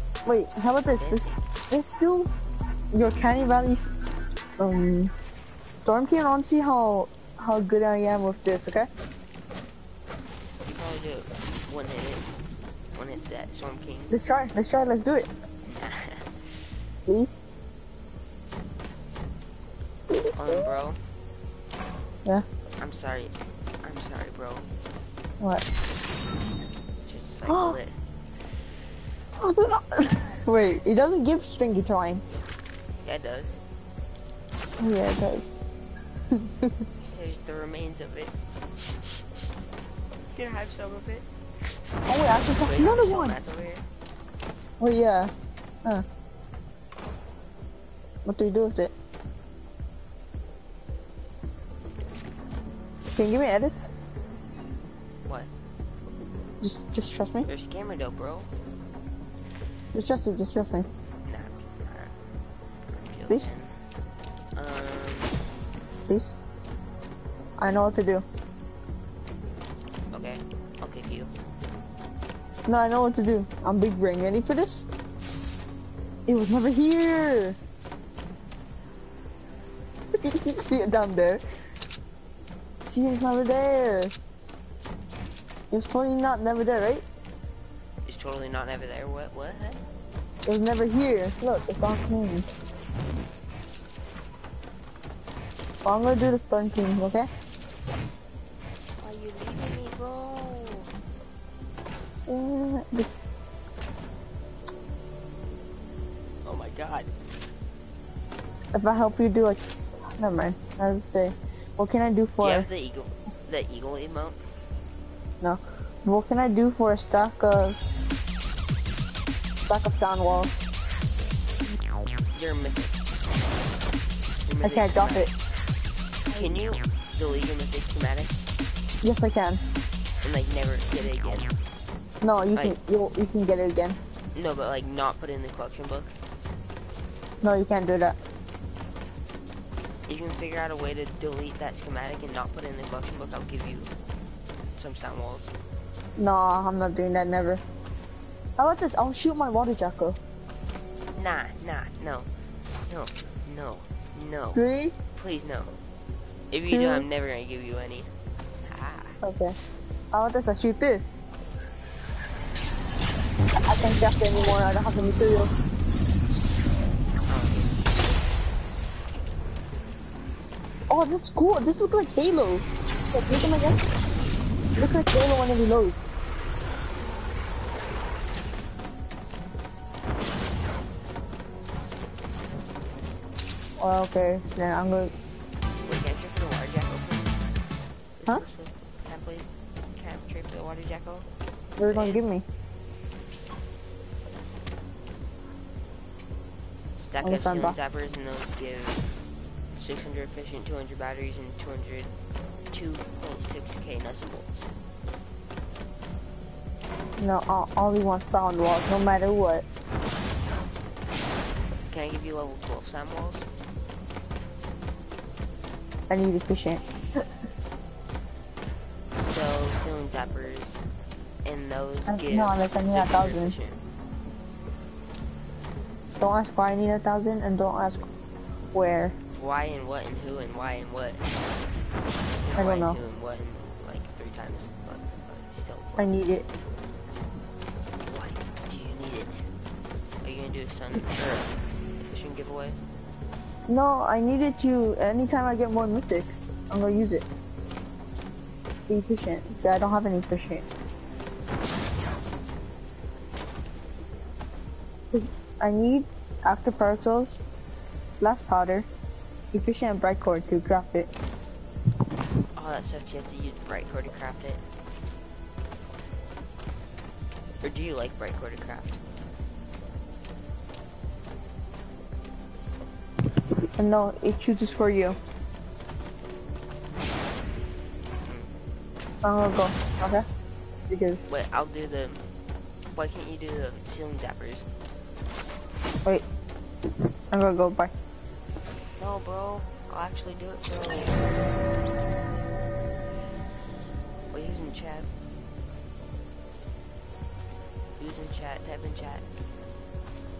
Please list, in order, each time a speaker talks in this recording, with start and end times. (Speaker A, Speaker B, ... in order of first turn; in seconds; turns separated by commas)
Speaker A: 0.2-2.3, Speaker B: 0.9-1.4, Speaker A: 2.9-3.9, Speaker A: 4.6-5.1, Speaker A: 5.8-8.9, Speaker B: 10.6-12.3, Speaker B: 12.9-14.1, Speaker A: 14.1-15.3, Speaker B: 15.6-16.8, Speaker A: 17.1-17.4, Speaker A: 20.1-20.6, Speaker B: 20.3-21.0, Speaker B: 22.8-24.7, Speaker B: 27.0-28.0, Speaker A: 27.5-27.8, Speaker A: 29.4-32.2, Speaker B: 33.0-33.6, Speaker A: 34.8-35.5, Speaker A: 36.3-36.7, Speaker B: 37.1-39.2, Speaker B: 40.3-43.9, Speaker A: 42.1-43.4, Speaker A: 44.8-45.3, Speaker A: 48.2-48.9, Speaker A: 53.1-53.9, Speaker B: 55.2-55.5, Speaker A: 56.6-57.5, Speaker B: 57.5-58.5, Speaker A: 59.9-60.9, Speaker B: 61.2-62.1, Speaker B: 62.9-63.8, Speaker B: 64.6-65.4, Speaker A: 66.1-66.4, Speaker A: 67.6-68.2, Speaker B: 70.1-71.3, Speaker A: 72.7-74.8, Speaker A: 76.3-77.6, Speaker A: 80.1-81.4, Speaker A: 82.8-84.1, Speaker A: 85.7-87.0, Speaker B: 88.0-89.8, Speaker A: 90.5-92.5, Speaker A: 95.8-97.3, Speaker B: 99.0-100.9, Speaker A: 102.3-103.1, Speaker B: 106.4-107.1, Speaker A: 108.7-109.6, Speaker A: 110.2-112.7, Speaker B: 112.4-114.5, Speaker A: 115.4-117.8, Speaker A: 119.6-120.7, Speaker B: 122.3-123.0, Speaker B: 124.5-125.3, Speaker A: 124.6-125.3, Speaker B: 126.3-128.5, Speaker A: 129.0-129.6, Speaker B: 130.2-131.6, Speaker A: 132.2-134.0, Speaker B: 134.3-136.2, Speaker A: 137.4-138.2, Speaker B: 140.1-143.9, Speaker B: 144.8-145.5, Speaker A: 146.2-147.6, Speaker A: 148.6-150.2, Speaker B: 151.2-152.3, Speaker B: 152.9-154.6, Speaker A: 154.5-154.9, Speaker B: 155.2-155.8, Speaker B: 156.5-159.2, Speaker A: 156.7-157.1, Speaker A: 159.2-159.6, Speaker A: 160.1-161.2, Speaker A: 163.7-165.7, Speaker B: 167.3-167.8, Speaker A: 170.9-173.8, Speaker A: 174.8-176.0, Speaker A: 183.8-185.1, Speaker B: 185.8-187.6, Speaker B: 188.2-191.3, Speaker A: 191.8-192.4, Speaker B: 191.9-192.2, Speaker B: 197.0-199.2, Speaker A: 197.2-197.8, Speaker B: 199.7-202.1, Speaker B: 202.7-204.7, Speaker A: 207.2-209.7, Speaker B: 211.9-213.7, Speaker A: 216.1-217.2, Speaker B: 219.1-220.8, Speaker B: 221.4-223.8, Speaker A: 222.1-223.6, Speaker A: 226.2-228.1, Speaker A: 228.7-229.2, Speaker B: 229.4-231.2, Speaker B: 232.4-236.2, Speaker A: 232.6-233.0, Speaker A: 236.0-236.4, Speaker B: 238.0-239.5, Speaker B: 240.2-242.8, Speaker A: 243.7-247.2, Speaker A: 248.9-250.7, Speaker A: 255.1-257.4, Speaker A: 258.2-258.9, Speaker A: 259.5-261.1, Speaker B: 262.6-264.6, Speaker B: 267.6-269.0, Speaker A: 273.8-275.2, Speaker B: 278.2-278.5, Speaker A: 279.2-280.2, Speaker A: 280.9-281.2, Speaker B: 281.3-282.3, Speaker B: 282.9-284.7, Speaker A: 287.3-287.9, Speaker B: 289.0-291.5, Speaker B: 294.3-295.1, Speaker B: 298.0-299.3